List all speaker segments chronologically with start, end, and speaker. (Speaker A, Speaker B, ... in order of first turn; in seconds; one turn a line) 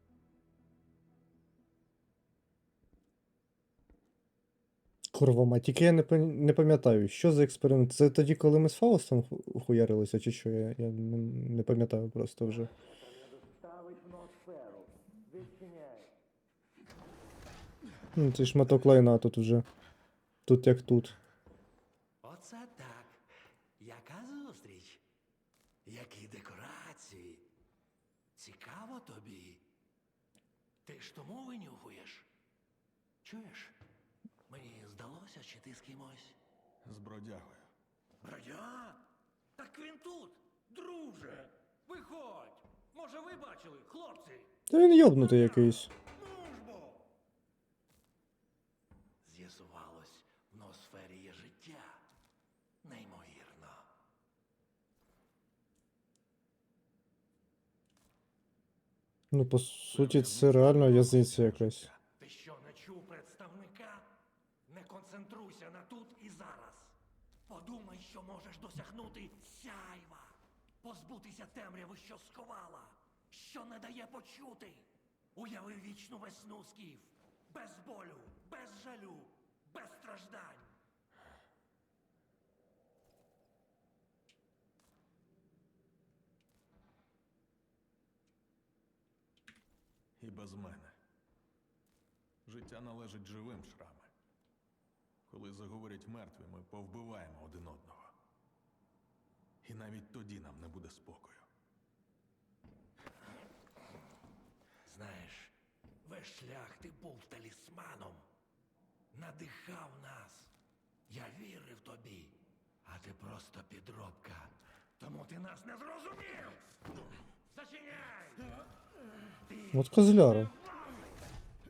Speaker A: 5.1-12.7
Speaker B: 12.5-16.1
Speaker A: 18.1-19.6
Speaker A: 20.4-21.1
Speaker B: 22.2-23.2
Speaker B: 23.8-25.0
Speaker B: 25.8-27.5
Speaker B: 28.4-29.6
Speaker B: 30.8-32.3
Speaker B: 33.2-33.8
Speaker B: 34.5-36.4
Speaker C: 36.8-37.7
Speaker B: 38.2-39.0
Speaker B: 39.6-44.5
Speaker A: 44.7-45.9
Speaker B: 45.3-47.1
Speaker B: 49.2-52.0
Speaker B: 52.8-53.9
Speaker A: 59.3-61.9
Speaker C: 59.9-62.0
Speaker B: 62.2-64.1
Speaker B: 64.7-67.0
Speaker B: 67.5-80.7
Speaker C: 90.2-91.0
Speaker C: 92.5-94.1
Speaker C: 95.3-98.2
Speaker C: 99.6-101.5
Speaker B: 104.8-108.2
Speaker B: 109.1-110.5
Speaker B: 111.1-116.6
Speaker B: 117.5-118.5
Speaker B: 119.5-120.9
Speaker A: 119.7-120.5